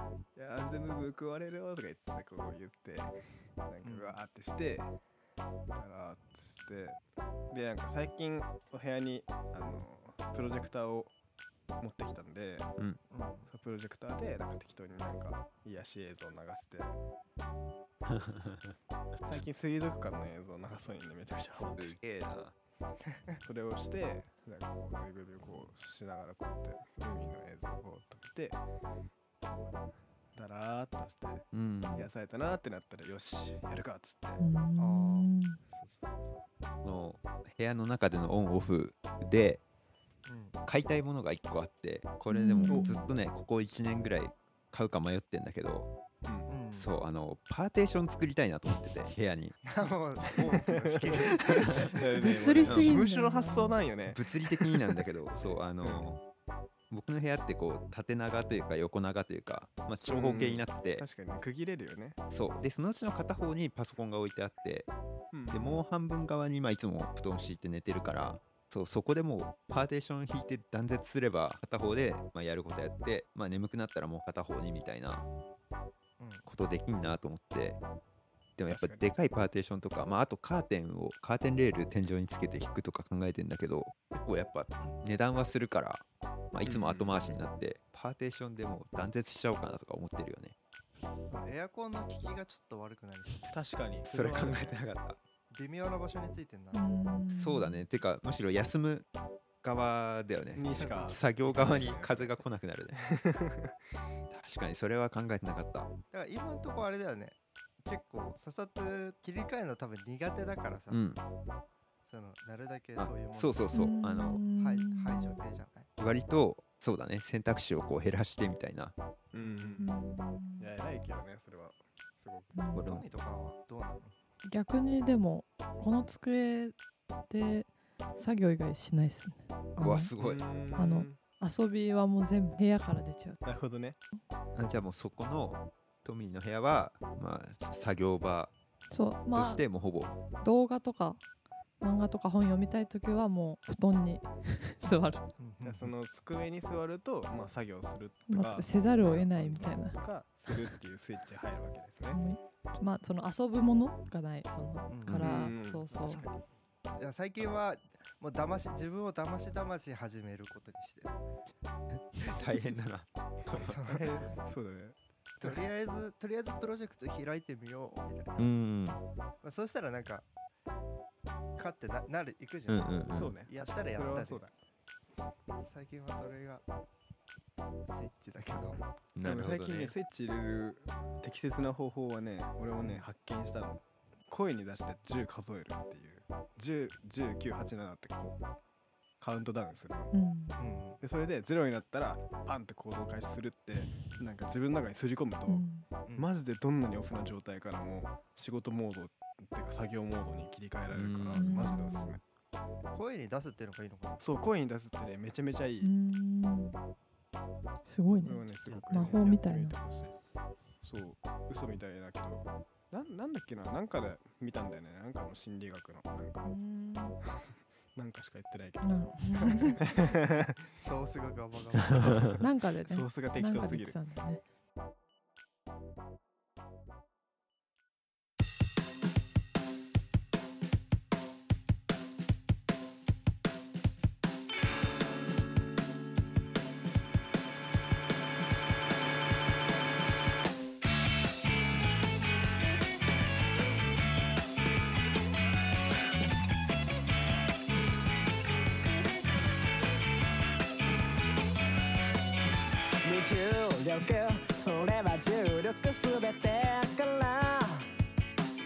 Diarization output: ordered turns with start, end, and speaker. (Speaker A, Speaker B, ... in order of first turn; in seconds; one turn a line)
Speaker A: 0.3-3.1
Speaker A: 3.7-4.9
Speaker B: 3.8-4.2
Speaker A: 5.7-11.1
Speaker A: 11.8-12.7
Speaker B: 13.1-13.5
Speaker A: 13.5-16.9
Speaker C: 18.1-18.7
Speaker A: 19.2-21.9
Speaker C: 21.7-22.5
Speaker A: 23.4-28.6
Speaker A: 30.3-34.4
Speaker C: 31.5-32.1
Speaker D: 34.4-35.6
Speaker B: 34.8-35.3
Speaker A: 35.7-36.4
Speaker C: 36.8-39.6
Speaker B: 40.2-40.6
Speaker C: 40.6-45.9
Speaker D: 42.3-43.1
Speaker A: 42.7-43.0
Speaker B: 46.5-46.9
Speaker C: 46.7-49.6
Speaker B: 49.6-52.0
Speaker A: 50.6-55.0
Speaker C: 51.4-51.9
Speaker D: 52.2-53.8
Speaker C: 52.6-53.0
Speaker C: 54.1-56.2
Speaker A: 55.8-56.1
Speaker C: 56.9-61.0
Speaker A: 60.0-62.2
Speaker C: 62.3-64.9
Speaker A: 65.3-65.8
Speaker C: 65.5-75.3
Speaker B: 76.2-76.4
Speaker C: 76.5-77.8
Speaker C: 78.6-90.5
Speaker A: 78.7-79.1
Speaker A: 86.6-87.2
Speaker B: 91.3-93.5
Speaker A: 93.5-94.7
Speaker C: 94.1-95.2
Speaker B: 95.5-96.9
Speaker D: 96.7-97.8
Speaker C: 97.3-99.0
Speaker C: 99.6-103.0
Speaker A: 100.5-102.3
Speaker B: 100.7-101.1
Speaker A: 103.0-103.7
Speaker C: 104.3-105.9
Speaker B: 106.1-111.0
Speaker C: 110.9-111.2
Speaker B: 112.0-113.7
Speaker C: 113.0-114.4
Speaker D: 113.7-115.4
Speaker B: 114.5-115.9
Speaker C: 116.0-118.9
Speaker A: 119.3-119.9
Speaker D: 119.8-120.7
Speaker A: 120.6-122.5
Speaker D: 122.5-122.8
Speaker C: 122.7-123.1
Speaker B: 122.8-124.1
Speaker D: 124.4-126.8
Speaker D: 127.3-130.1
Speaker C: 129.8-130.4
Speaker A: 130.2-131.2
Speaker D: 130.7-133.4
Speaker A: 133.4-134.0
Speaker C: 134.5-138.5
Speaker D: 138.9-139.6
Speaker C: 139.3-140.2
Speaker D: 140.4-141.2
Speaker D: 141.8-145.2
Speaker B: 145.4-145.9
Speaker A: 145.6-152.2
Speaker D: 148.3-150.0
Speaker D: 152.1-156.2
Speaker B: 154.9-155.5
Speaker C: 155.1-155.3
Speaker A: 155.1-156.3
Speaker B: 157.0-161.1
Speaker C: 162.2-163.7
Speaker B: 163.5-164.1
Speaker A: 163.8-165.5
Speaker B: 165.4-168.5
Speaker C: 168.4-169.0
Speaker B: 169.4-170.2
Speaker B: 171.6-174.4
Speaker C: 172.7-173.3
Speaker A: 173.1-174.5
Speaker B: 175.6-176.6
Speaker B: 177.8-178.8
Speaker C: 179.2-179.9
Speaker A: 179.2-188.4
Speaker B: 182.8-183.1
Speaker A: 189.2-190.1
Speaker D: 190.1-190.6
Speaker B: 190.6-191.0
Speaker A: 191.0-202.2
Speaker D: 195.5-195.8
Speaker C: 200.9-201.6
Speaker D: 201.3-202.2
Speaker B: 202.9-204.2
Speaker A: 204.2-205.9
Speaker D: 205.8-206.8
Speaker D: 207.8-209.7
Speaker A: 208.2-210.1
Speaker A: 210.8-216.5
Speaker D: 216.4-217.2
Speaker A: 217.4-219.2
Speaker D: 218.8-219.8
Speaker B: 219.4-219.8
Speaker A: 219.8-220.6
Speaker B: 220.7-222.4
Speaker A: 221.9-223.9
Speaker D: 222.4-224.4
Speaker E: 253.0-257.9